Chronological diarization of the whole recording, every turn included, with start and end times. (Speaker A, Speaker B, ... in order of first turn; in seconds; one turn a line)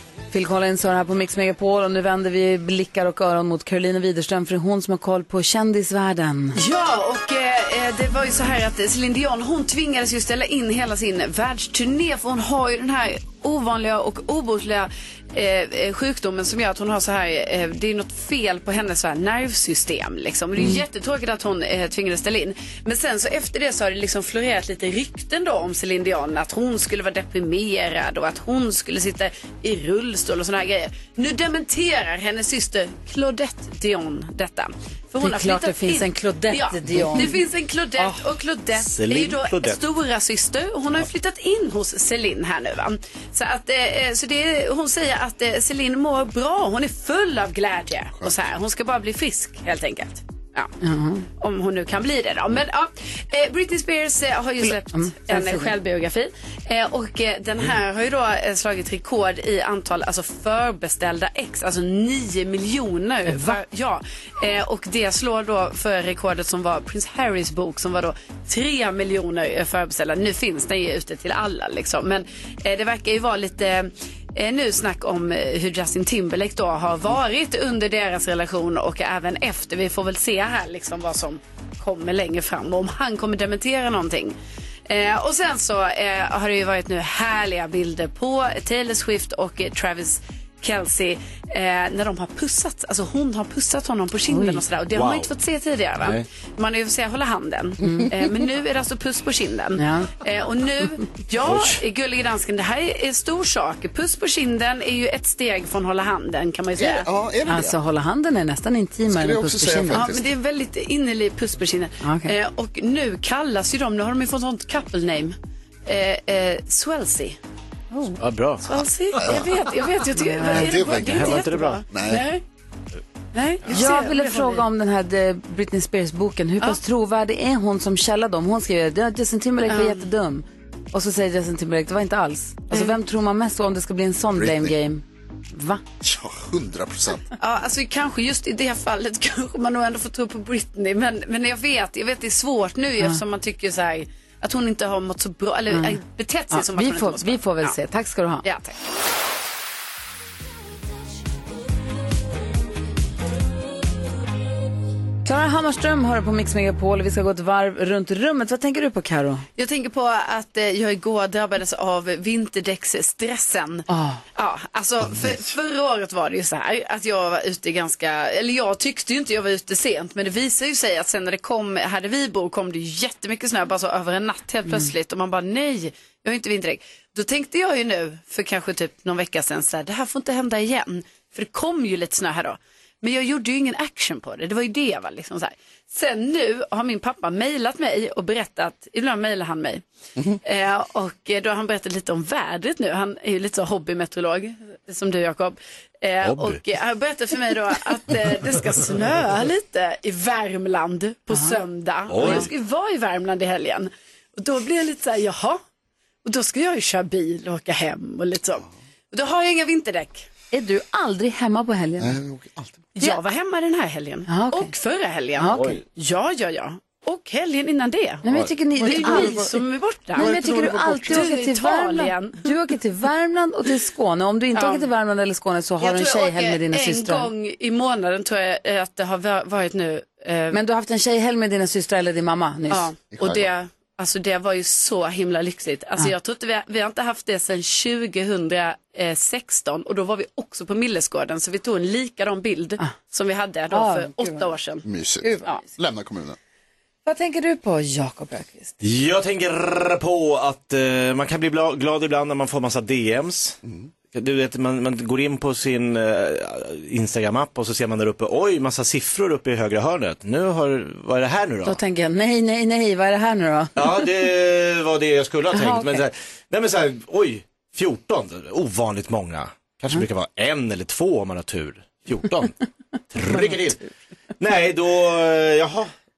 Speaker A: 0.3-6.6
Speaker B: 6.5-50.7
Speaker A: 35.2-37.4
Speaker C: 38.8-39.8
Speaker A: 50.8-51.3
Speaker B: 51.4-84.3
Speaker A: 54.9-55.7
Speaker A: 63.2-63.6
Speaker B: 84.9-107.1
Speaker A: 94.3-94.6
Speaker C: 94.9-95.3
Speaker C: 96.0-96.2
Speaker A: 97.8-98.1
Speaker A: 99.8-100.1
Speaker C: 101.4-101.8
Speaker D: 106.8-107.8
Speaker A: 107.5-110.1
Speaker D: 109.0-110.3
Speaker B: 109.9-117.4
Speaker A: 112.0-112.3
Speaker C: 118.2-118.7
Speaker B: 118.6-122.4
Speaker D: 119.2-119.5
Speaker A: 120.2-120.7
Speaker D: 120.5-122.2
Speaker C: 121.0-121.8
Speaker B: 123.3-124.7
Speaker A: 123.7-135.8
Speaker B: 129.7-130.0
Speaker D: 134.3-134.7
Speaker D: 136.0-137.2
Speaker B: 137.4-147.7
Speaker A: 145.7-146.0
Speaker A: 146.5-148.4
Speaker B: 148.4-148.7
Speaker A: 155.2-159.4
Speaker B: 159.6-189.8
Speaker A: 163.9-164.2
Speaker B: 190.4-205.6
Speaker C: 196.2-196.6
Speaker C: 202.1-202.5
Speaker B: 206.2-210.3
Speaker A: 210.5-212.2
Speaker D: 212.0-212.9
Speaker B: 212.9-218.2
Speaker A: 214.3-214.7
Speaker A: 215.4-215.7
Speaker C: 215.5-215.8
Speaker A: 218.2-219.5
Speaker D: 218.8-219.6
Speaker B: 218.8-222.5
Speaker D: 220.1-221.3
Speaker A: 220.1-227.3
Speaker B: 224.5-224.9
Speaker B: 225.8-230.6
Speaker A: 230.5-232.9
Speaker B: 232.7-244.8
Speaker D: 233.1-233.5
Speaker A: 243.7-244.5
Speaker D: 244.8-246.4
Speaker A: 245.2-245.6
Speaker A: 247.1-248.7
Speaker C: 248.8-253.6
Speaker D: 253.6-253.9
Speaker C: 254.1-261.8
Speaker A: 261.6-264.1
Speaker C: 263.8-272.5
Speaker A: 265.5-266.0
Speaker C: 273.1-273.8
Speaker C: 274.4-275.9